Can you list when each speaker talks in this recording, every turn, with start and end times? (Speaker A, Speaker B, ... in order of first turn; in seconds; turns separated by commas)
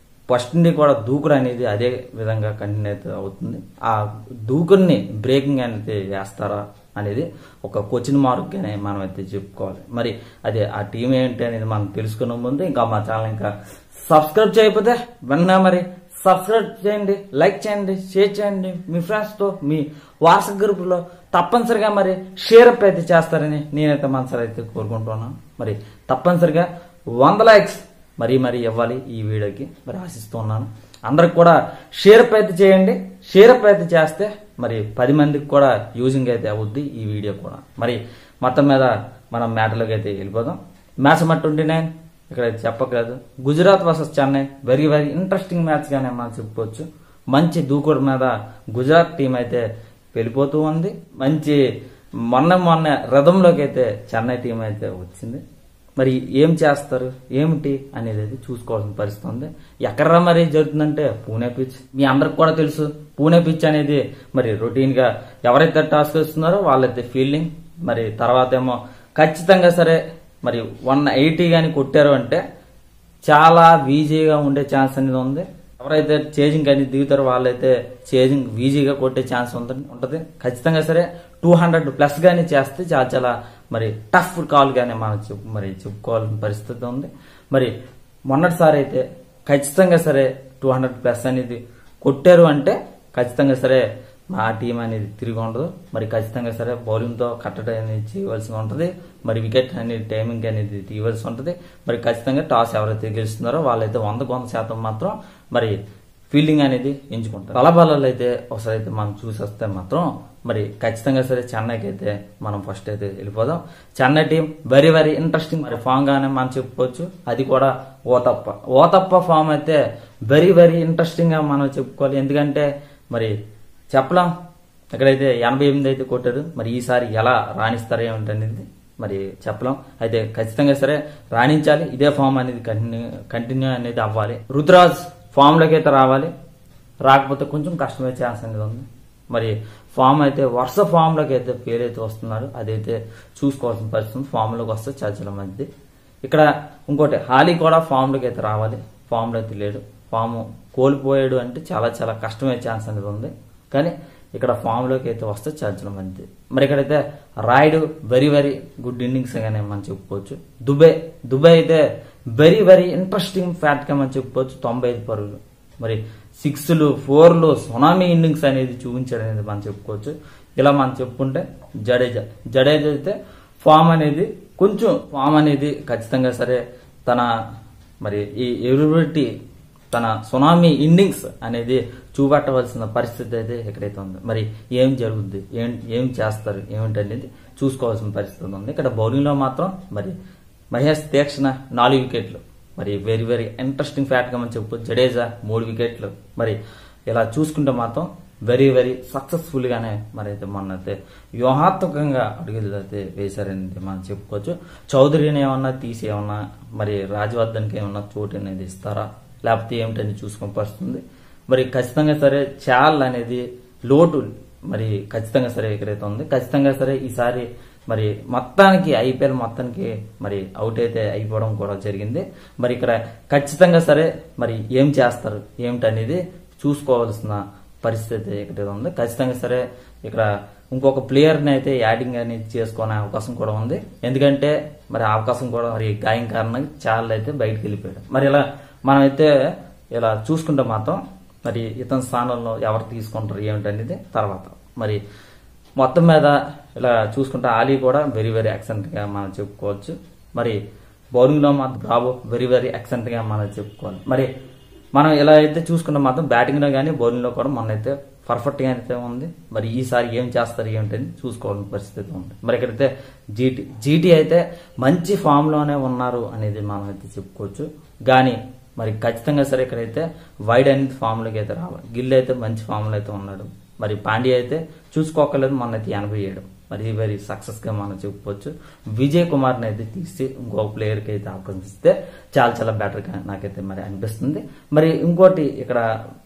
Speaker A: 0.3-13.5, Speaker A: 14.0-51.6, Speaker A: 52.3-55.4, Speaker A: 56.0-72.4, Speaker A: 73.2-87.7, Speaker A: 88.3-105.7, Speaker A: 106.3-123.3, Speaker A: 123.9-124.3, Speaker A: 124.9-136.3, Speaker A: 137.1-145.7, Speaker A: 146.2-177.3, Speaker A: 178.0-179.3, Speaker A: 179.9-190.2, Speaker A: 190.7-196.6, Speaker A: 197.1-245.0, Speaker A: 245.8-250.6, Speaker A: 251.1-254.3, Speaker A: 254.9-285.8